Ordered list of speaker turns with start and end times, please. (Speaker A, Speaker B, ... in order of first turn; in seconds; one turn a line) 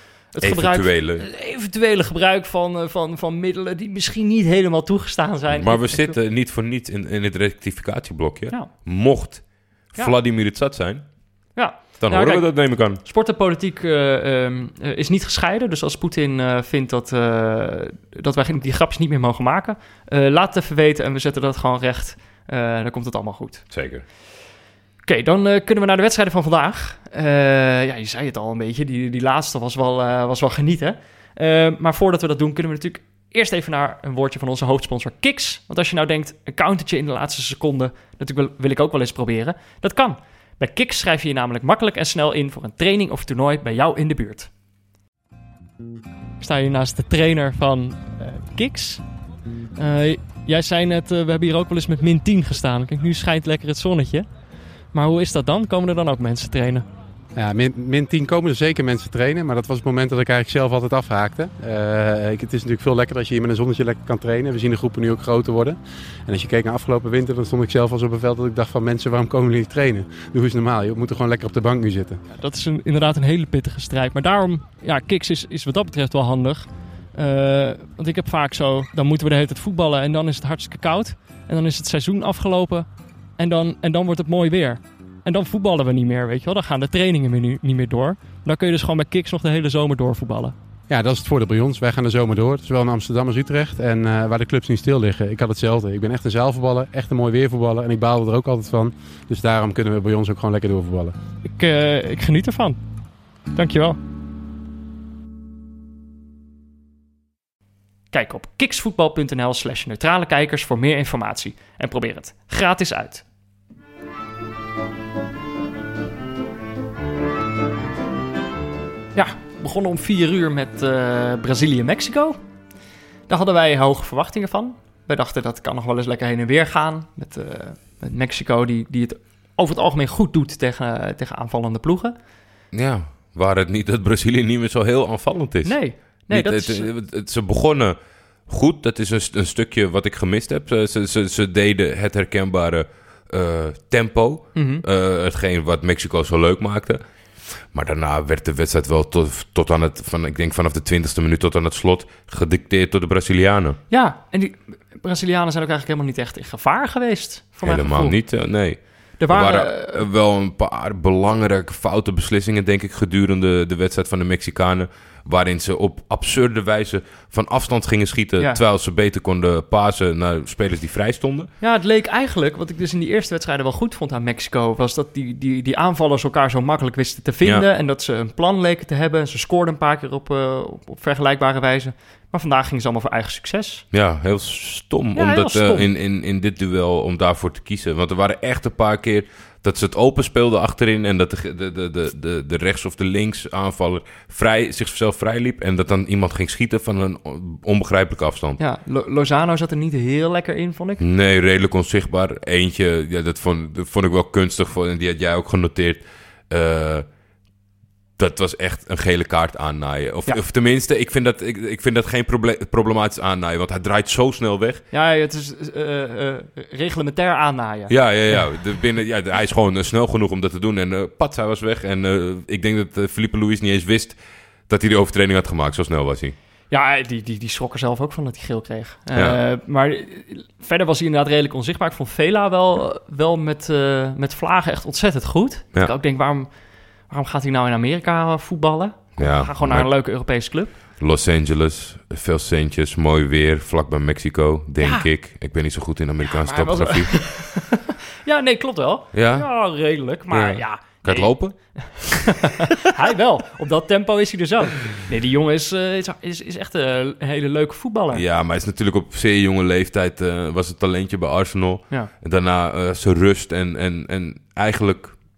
Speaker A: 0.3-6.2
Speaker B: 0.4-1.3
Speaker B: 5.5-11.1
Speaker A: 11.5-23.6
Speaker B: 12.0-13.0
Speaker B: 23.7-24.0
Speaker A: 25.1-44.5
Speaker A: 46.4-49.0
Speaker A: 49.8-54.3
Speaker A: 54.9-56.8
Speaker C: 57.3-72.2
Speaker A: 72.3-82.9
Speaker A: 83.4-90.5
Speaker C: 90.9-101.1
Speaker A: 101.4-102.8
Speaker A: 103.5-104.0
Speaker A: 108.1-113.2
Speaker A: 119.1-122.4
Speaker A: 123.3-132.1
Speaker B: 132.7-137.9
Speaker A: 135.6-136.9
Speaker B: 138.5-153.8
Speaker A: 144.5-144.8
Speaker A: 153.9-158.2
Speaker B: 157.6-171.5
Speaker A: 159.2-160.1
Speaker A: 171.6-183.8
Speaker B: 183.9-198.6
Speaker A: 185.1-185.9
Speaker A: 198.6-201.0
Speaker B: 201.0-207.1
Speaker B: 208.2-214.8
Speaker A: 214.9-218.5
Speaker B: 217.9-224.2
Speaker B: 224.7-226.3
Speaker A: 226.7-236.5
Speaker A: 237.1-240.7
Speaker B: 239.2-239.9
Speaker B: 240.9-247.2
Speaker A: 244.8-245.1
Speaker A: 246.3-258.2
Speaker B: 249.1-249.5
Speaker B: 250.3-252.5
Speaker B: 258.1-265.2